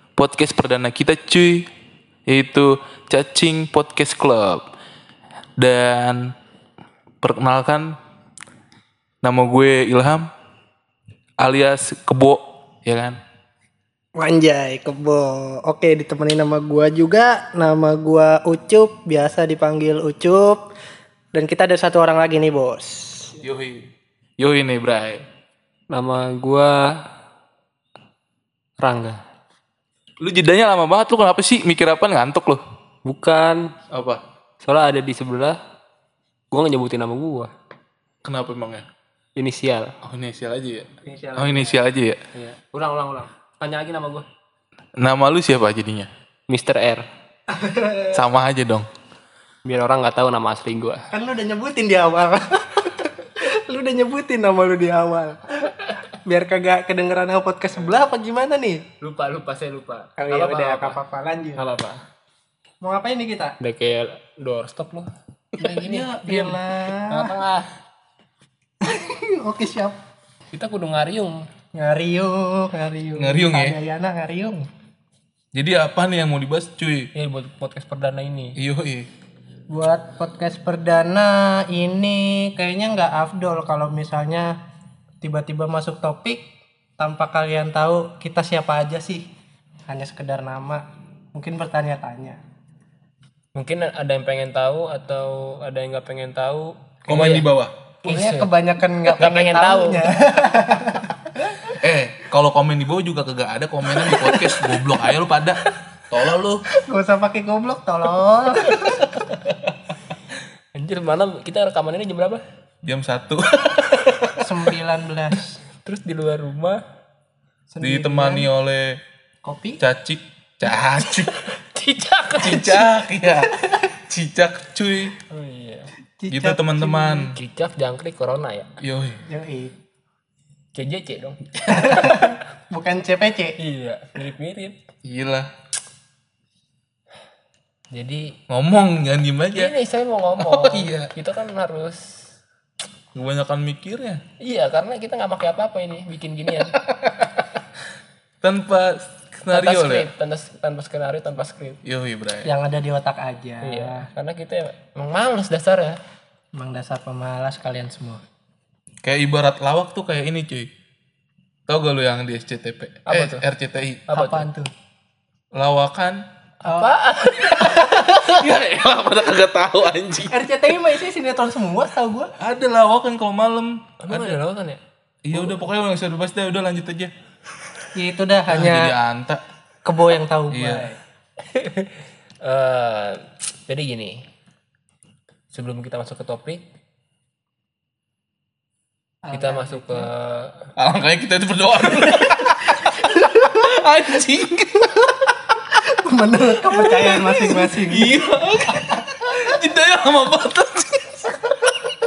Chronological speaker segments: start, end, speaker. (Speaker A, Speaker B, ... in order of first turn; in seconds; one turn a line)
Speaker A: 0.2-1.7
Speaker A: 2.3-4.7
Speaker A: 5.6-6.3
Speaker A: 7.2-8.0
Speaker A: 9.2-10.3
Speaker A: 11.4-13.2
Speaker B: 14.2-20.6
Speaker B: 21.3-23.4
Speaker A: 23.4-23.9
Speaker A: 24.4-25.3
Speaker C: 25.9-27.1
Speaker C: 28.8-29.2
Speaker A: 30.2-32.6
Speaker C: 33.0-33.7
Speaker A: 33.9-34.2
Speaker C: 34.6-35.6
Speaker C: 36.5-37.5
Speaker A: 38.2-38.9
Speaker C: 39.4-39.9
Speaker A: 40.0-42.2
Speaker B: 41.0-41.8
Speaker C: 42.3-44.3
Speaker A: 45.0-46.1
Speaker C: 46.5-47.0
Speaker B: 47.5-48.2
Speaker A: 48.1-48.9
Speaker C: 49.7-51.1
Speaker B: 51.1-58.8
Speaker C: 59.0-61.0
Speaker B: 60.2-61.7
Speaker C: 61.6-62.0
Speaker B: 62.8-63.6
Speaker C: 63.6-67.7
Speaker B: 65.6-67.3
Speaker B: 68.8-70.0
Speaker C: 70.5-71.5
Speaker B: 71.7-74.7
Speaker A: 73.2-73.8
Speaker A: 75.5-77.1
Speaker C: 77.2-78.6
Speaker A: 78.6-79.1
Speaker B: 79.7-84.6
Speaker B: 85.2-86.4
Speaker B: 87.0-89.3
Speaker B: 89.9-92.4
Speaker C: 93.5-97.5
Speaker A: 97.1-97.7
Speaker C: 98.0-98.5
Speaker B: 98.0-101.8
Speaker C: 99.2-100.1
Speaker A: 101.8-106.6
Speaker B: 104.0-104.7
Speaker B: 106.7-109.3
Speaker C: 110.8-112.4
Speaker A: 112.8-114.2
Speaker C: 114.0-114.4
Speaker B: 114.4-115.6
Speaker C: 115.8-116.8
Speaker B: 117.7-118.5
Speaker A: 117.8-119.0
Speaker B: 119.4-119.8
Speaker A: 119.8-121.3
Speaker C: 121.3-122.9
Speaker A: 122.4-125.2
Speaker C: 125.3-125.9
Speaker B: 126.2-127.3
Speaker A: 126.3-127.4
Speaker C: 127.3-128.7
Speaker A: 128.8-129.2
Speaker B: 129.3-129.7
Speaker C: 130.8-132.3
Speaker B: 131.7-133.6
Speaker C: 133.6-134.8
Speaker A: 135.0-135.5
Speaker C: 137.9-138.4
Speaker A: 138.5-139.7
Speaker C: 139.5-142.3
Speaker A: 140.4-141.1
Speaker A: 143.2-144.2
Speaker C: 144.4-146.8
Speaker A: 148.4-150.1
Speaker C: 149.5-151.8
Speaker A: 151.8-152.5
Speaker B: 152.4-154.1
Speaker C: 153.6-156.0
Speaker B: 156.6-158.2
Speaker A: 159.0-160.7
Speaker A: 161.7-164.1
Speaker C: 163.1-163.4
Speaker B: 164.1-164.7
Speaker C: 164.1-164.5
Speaker A: 165.5-166.2
Speaker B: 166.7-166.9
Speaker C: 166.7-168.2
Speaker B: 167.5-168.2
Speaker A: 167.8-170.3
Speaker B: 170.3-172.3
Speaker A: 172.4-174.4
Speaker C: 174.0-174.8
Speaker A: 175.2-177.1
Speaker B: 177.9-178.9
Speaker A: 178.5-179.4
Speaker B: 179.8-181.0
Speaker A: 180.5-180.9
Speaker C: 181.4-184.2
Speaker C: 185.5-186.6
Speaker B: 189.2-190.1
Speaker C: 189.3-190.7
Speaker A: 190.8-195.3
Speaker B: 192.8-193.6
Speaker B: 195.8-198.2
Speaker A: 196.7-201.8